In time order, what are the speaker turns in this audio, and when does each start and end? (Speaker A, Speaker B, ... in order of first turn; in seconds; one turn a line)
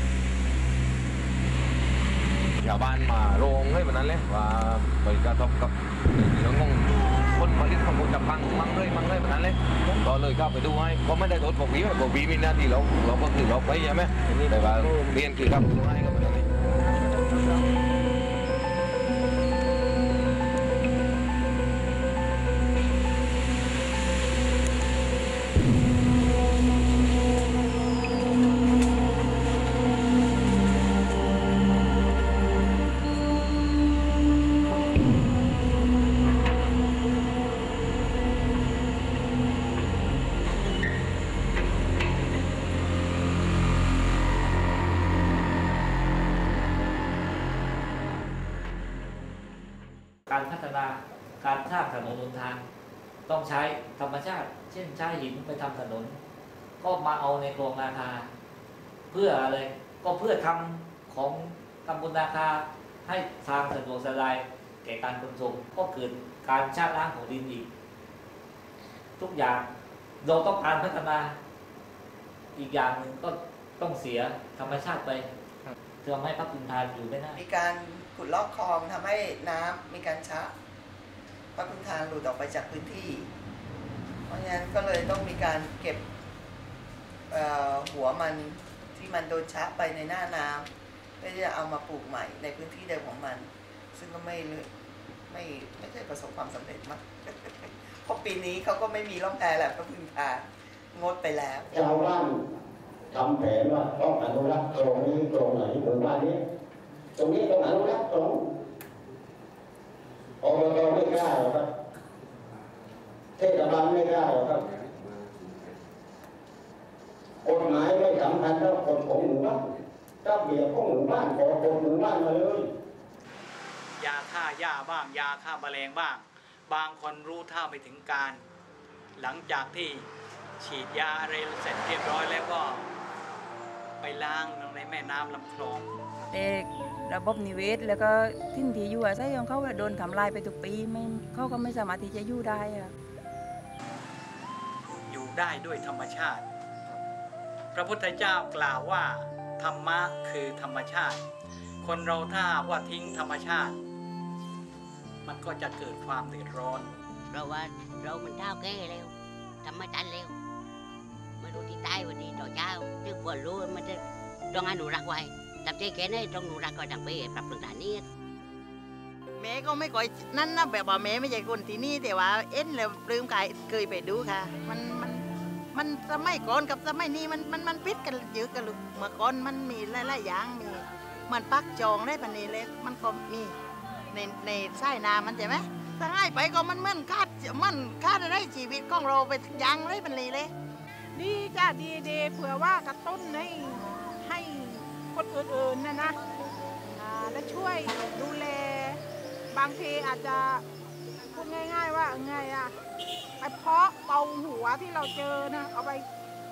Speaker A: 2.6-16.6
Speaker B: 50.3-52.6
Speaker B: 53.3-56.2
Speaker B: 56.8-58.3
Speaker B: 59.1-67.7
Speaker B: 69.2-69.7
Speaker B: 70.2-71.4
Speaker B: 72.5-75.3
Speaker B: 76.0-77.4
Speaker C: 77.3-80.5
Speaker C: 81.5-83.3
Speaker C: 84.3-86.0
Speaker C: 87.3-90.7
Speaker C: 91.2-94.7
Speaker C: 95.3-101.7
Speaker D: 101.7-102.3
Speaker D: 103.1-106.4
Speaker D: 107.2-108.4
Speaker D: 110.4-111.7
Speaker D: 113.4-114.7
Speaker D: 117.4-119.6
Speaker D: 120.2-122.7
Speaker E: 124.0-128.4
Speaker E: 129.2-130.1
Speaker E: 130.6-132.9
Speaker E: 134.0-135.9
Speaker F: 136.3-142.9
Speaker E: 145.1-146.4
Speaker E: 147.7-151.2
Speaker E: 151.8-153.8
Speaker E: 155.2-156.9
Speaker G: 157.3-159.1
Speaker G: 159.6-160.3
Speaker G: 161.4-164.0
Speaker G: 164.5-168.0
Speaker H: 169.3-175.2
Speaker H: 175.7-183.5
Speaker H: 184.1-190.5
Speaker I: 191.2-196.2
Speaker I: 197.0-199.0
Speaker I: 199.5-200.6
Speaker I: 201.3-202.7
Speaker I: 203.4-206.1